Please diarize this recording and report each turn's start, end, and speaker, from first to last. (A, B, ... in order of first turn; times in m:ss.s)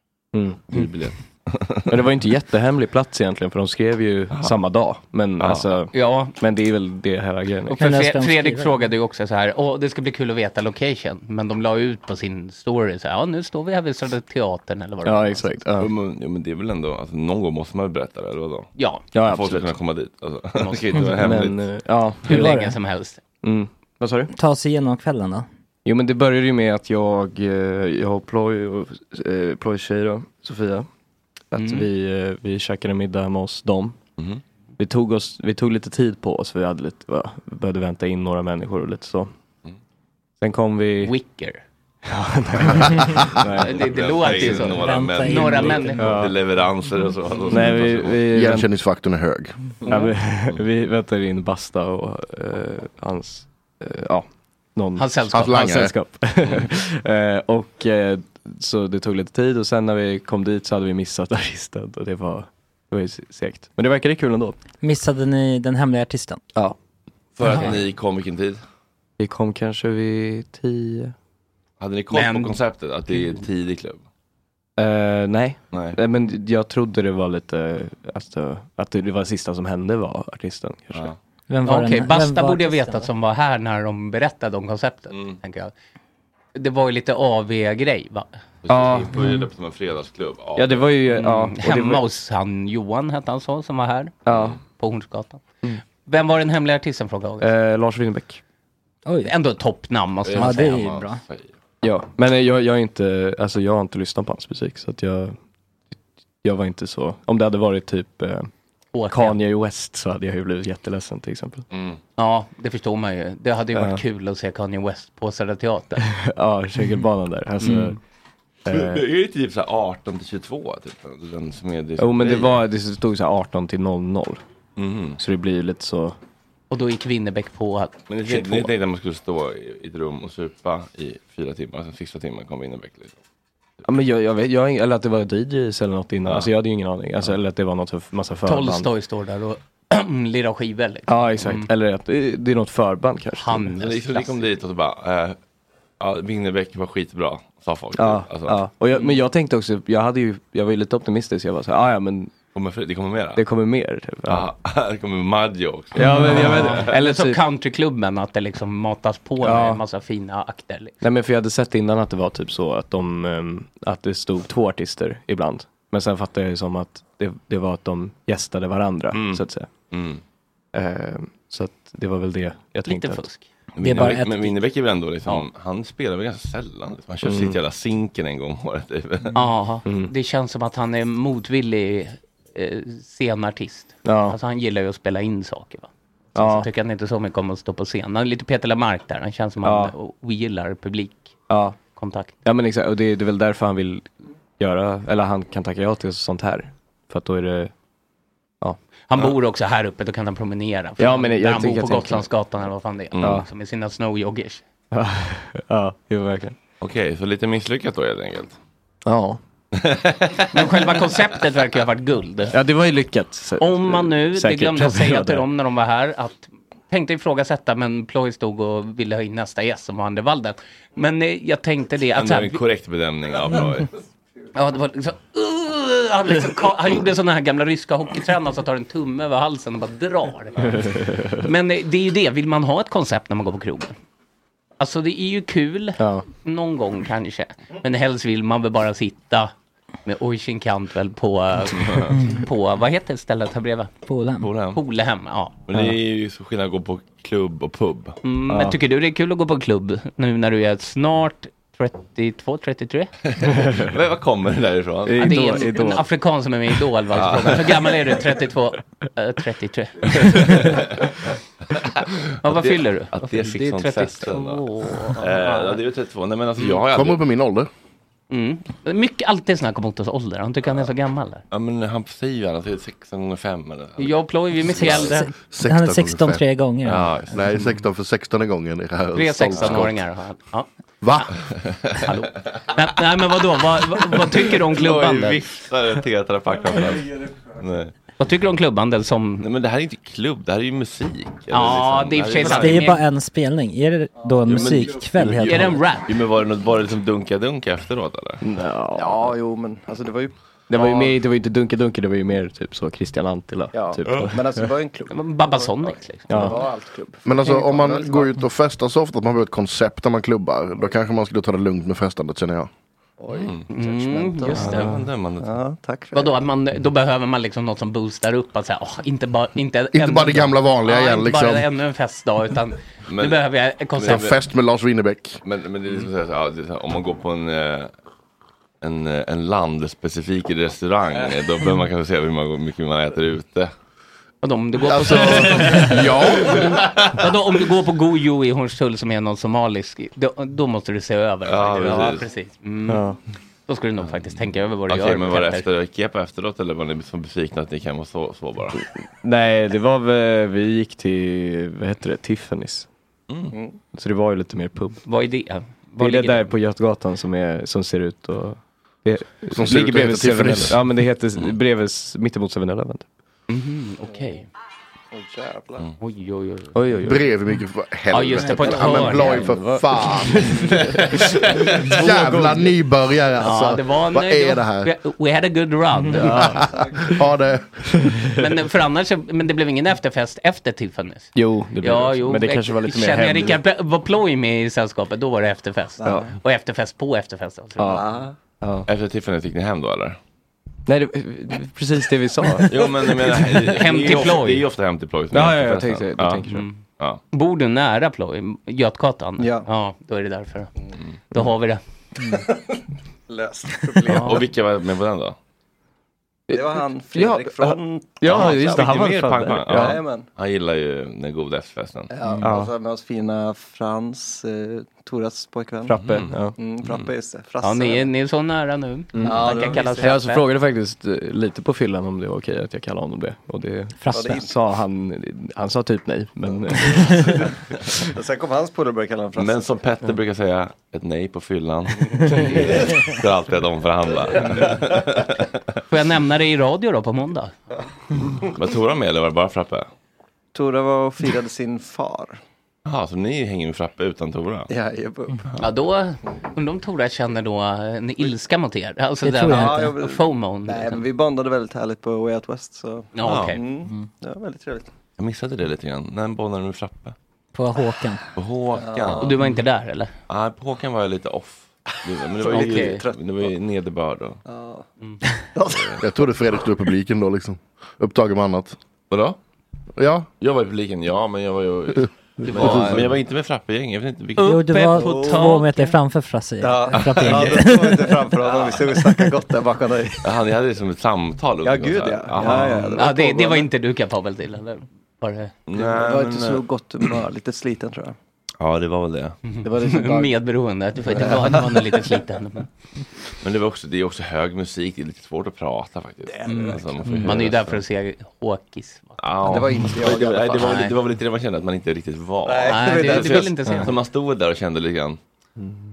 0:00.3-0:00.9 A
0:00.7-0:01.9 B
0:01.9-0:07.9 A
0:05.4-0:05.7 B
0:05.9-0:06.4 C
0:07.8-0:15.7 C
0:07.8-0:08.8 D
0:15.0-0:15.9 A
0:15.8-0:21.7 B
0:18.8-0:19.0 C
0:19.1-0:19.7 A
0:20.6-0:21.0 C
0:21.2-0:22.5 A
0:22.3-0:22.8 D
0:22.3-0:23.2 C
0:23.4-0:24.3 A
0:24.3-0:25.5 D
0:25.8-0:30.9 A
0:31.5-0:34.0 A
0:31.6-0:31.9 C
0:34.8-0:39.3 A
0:40.4-0:41.1 A
0:41.0-0:41.6 C
0:42.1-0:44.6 A
0:43.5-0:46.2 C
0:43.6-0:48.2 B
0:44.7-0:46.0 D
0:46.0-0:46.3 A
0:47.5-0:48.7 A
0:48.3-0:49.6 E
0:49.8-0:50.1 C
0:49.8-1:04.6 A
0:55.0-0:55.7 C
0:55.3-0:55.9 E
1:04.8-1:06.4 D
1:07.4-1:08.6 B
1:09.2-1:11.1 A
1:11.8-1:14.0 B
1:12.1-1:12.6 C
1:13.1-1:13.4 C
1:14.8-1:21.1 A
1:15.7-1:16.0 B
1:21.5-1:23.1 D
1:21.6-1:25.7 C
1:25.1-1:25.4 B
1:26.6-1:28.3 C
1:28.6-1:30.9 B
1:28.7-1:29.1 A
1:30.6-1:32.0 A
1:31.1-1:35.4 C
1:34.3-1:34.6 A
1:36.0-1:37.5 C
1:37.4-1:38.4 A
1:39.1-1:39.3 D
1:39.2-1:41.0 C
1:40.2-1:41.5 B
1:40.4-1:41.2 D
1:41.8-1:45.4 A
1:46.4-1:48.5 A
1:48.9-1:49.4 C
1:49.1-1:51.6 A
1:51.7-1:52.0 B
1:52.2-1:56.1 C
1:53.7-1:54.0 A
1:56.1-1:58.0 A
1:57.6-1:57.9 C
1:58.7-1:59.0 A
1:58.7-2:02.6 B
2:02.0-2:04.4 A
2:04.8-2:05.2 B
2:05.2-2:06.2 A
2:06.7-2:08.7 C
2:08.1-2:13.2 B
2:13.8-2:18.9 A
2:18.5-2:21.7 C
2:21.1-2:23.7 A
2:23.4-2:24.5 C
2:23.8-2:25.4 B
2:26.0-2:28.6 B
2:28.0-2:32.3 A
2:32.5-2:33.4 B
2:33.4-2:34.5 A
2:34.3-2:36.9 B
2:36.0-2:37.4 A
2:36.0-2:41.0 C
2:39.4-2:39.8 A
2:41.0-2:49.7 A
2:49.1-2:50.2 B
2:50.7-2:53.3 A
2:52.9-2:53.5 C
2:53.8-2:59.4 B
2:53.8-2:54.6 D
2:57.2-2:57.6 A
2:59.3-3:12.3 C
2:59.8-3:00.1 A
3:04.0-3:04.4 A
3:06.4-3:06.7 A
3:09.6-3:09.9 A
3:11.5-3:11.8 A
3:12.4-3:17.7 A
3:19.1-3:24.6 C
3:21.0-3:22.3 A
3:23.1-3:23.4 B
3:23.2-3:23.5 A
3:24.9-3:26.6 A
3:26.8-3:28.6 B
3:29.1-3:29.4 A
3:29.7-3:31.1 B
3:30.5-3:32.5 C
3:32.5-3:35.4 A
3:33.6-3:42.6 C
3:42.2-3:43.9 B
3:44.6-3:50.9 C
3:50.8-3:51.4 A
3:51.4-3:53.9 C
3:54.8-3:59.5 C
3:56.0-3:56.2 A
4:00.0-4:03.9 C
4:04.1-4:04.5 D
4:04.4-4:04.8 B
4:04.6-4:05.6 C
4:05.7-4:08.2 B
4:08.2-4:13.1 C
4:08.5-4:08.8 A
4:13.3-4:15.7 B
4:13.5-4:13.9 A
4:15.1-4:16.0 A
4:15.2-4:20.7 C
4:17.1-4:18.2 B
4:20.2-4:21.1 B
4:21.8-4:27.2 B
4:22.4-4:25.8 C
4:26.9-4:27.7 E
4:28.3-4:31.4 C
4:31.5-4:35.2 B
4:34.0-4:35.3 C
4:34.9-4:37.2 D
4:35.5-4:36.4 E
4:36.8-4:37.4 B
4:37.3-4:40.0 E
4:39.1-4:41.3 C
4:39.6-4:39.9 B
4:41.0-4:41.3 E
4:41.6-4:42.1 B
4:42.0-4:45.4 C
4:44.2-4:47.9 B
4:48.2-4:49.5 C
4:49.4-4:52.9 B
4:51.5-4:53.1 C
4:52.4-4:55.8 D
4:54.5-4:58.4 B
4:55.3-4:56.2 C
4:58.4-4:59.4 A
4:59.0-5:01.2 F
5:00.7-5:04.6 A
5:03.7-5:08.4 F
5:05.1-5:06.6 C
5:06.3-5:06.6 A
5:07.2-5:12.7 E
5:13.2-5:16.4 F
5:13.4-5:13.7 B
5:13.7-5:14.9 C
5:14.5-5:15.5 B
5:14.6-5:14.9 A
5:16.1-5:24.3 C
5:19.9-5:21.7 E
5:23.1-5:24.4 B
5:24.0-5:25.4 E
5:25.4-5:27.9 B
5:28.8-5:33.7 B
5:34.4-5:36.6 C
5:34.9-5:36.8 E
5:35.3-5:35.9 B
5:36.5-5:37.0 B
5:37.2-5:43.1 C
5:41.5-5:42.3 B
5:42.9-5:43.2 A
5:43.7-5:45.7 C
5:44.0-5:48.8 B
5:48.8-5:52.9 A
5:53.3-5:53.5 B
5:53.5-5:53.8 F
5:53.9-5:55.0 A
5:55.0-5:56.5 C
5:56.0-6:03.0 A
5:59.5-6:00.8 E
6:03.5-6:04.5 C
6:05.1-6:05.9 F
6:06.0-6:06.7 C
6:06.7-6:07.2 A
6:07.0-6:10.7 E
6:08.1-6:09.5 C
6:08.8-6:10.7 A
6:11.8-6:14.9 E
6:12.2-6:12.4 A
6:13.4-6:16.6 C
6:16.1-6:16.7 A
6:17.0-6:17.8 E
6:18.3-6:28.0 C
6:21.4-6:23.6 A
6:26.0-6:26.3 F
6:26.0-6:26.3 A
6:27.8-6:28.0 A
6:27.8-6:28.4 F
6:28.6-6:28.9 A
6:28.9-6:30.2 B
6:30.9-6:32.9 A
6:32.7-6:36.4 B
6:33.6-6:34.7 C
6:35.3-6:36.6 A
6:36.5-6:36.8 C
6:37.3-6:40.7 C
6:39.4-6:39.7 F
6:41.3-6:41.8 C
6:42.3-6:42.8 F
6:43.3-6:44.4 F
6:44.1-6:44.4 C
6:44.1-6:45.4 B
6:46.5-6:50.0 A
6:46.5-6:48.9 F
6:48.3-6:52.1 B
6:49.7-6:50.3 F
6:52.1-6:56.0 F
6:52.4-6:52.7 A
6:55.9-6:56.6 A
6:56.0-6:57.1 B
6:56.6-6:58.1 F
6:57.6-7:00.4 C
6:59.2-7:07.4 A
6:59.2-7:00.1 F
7:04.0-7:04.4 D
7:04.1-7:04.5 F
7:06.9-7:07.4 F
7:08.0-7:09.7 F
7:09.4-7:15.6 B
7:12.5-7:13.0 F
7:15.9-7:17.5 C
7:18.2-7:19.9 B
7:20.5-7:22.4 F
7:22.9-7:24.7 B
7:24.7-7:25.5 F
7:25.6-7:31.0 C
7:29.2-7:30.0 D
7:29.4-7:34.9 F
7:33.1-7:33.7 C
7:33.2-7:33.6 B
7:35.2-7:37.2 B
7:37.5-7:38.2 D
7:38.4-7:39.4 B
7:38.7-7:39.3 F
7:39.2-7:40.1 C
7:40.3-7:44.4 B
7:42.4-7:43.5 F
7:42.5-7:43.1 C
7:44.4-7:44.9 F
7:45.6-7:46.4 F
7:46.0-7:48.8 E
7:49.1-7:49.4 B
7:50.0-7:50.3 E
7:50.4-7:54.6 B
7:52.4-7:53.0 C
7:54.4-7:56.0 C
7:54.4-7:58.4 D
7:55.0-7:55.5 F
7:56.6-8:00.5 F
7:56.9-7:57.6 B
7:59.0-7:59.3 D
8:00.2-8:03.1 B
8:01.6-8:03.7 F
8:02.4-8:05.5 C
8:05.7-8:07.0 B
8:05.7-8:08.2 F
8:08.6-8:09.4 B
8:09.5-8:12.7 C
8:09.7-8:10.3 F
8:11.1-8:11.6 F
8:13.4-8:17.8 B
8:16.3-8:17.2 F
8:16.5-8:19.6 C
8:19.2-8:25.2 B
8:19.4-8:20.8 F
8:20.6-8:21.0 C
8:22.4-8:23.5 F
8:22.6-8:24.0 C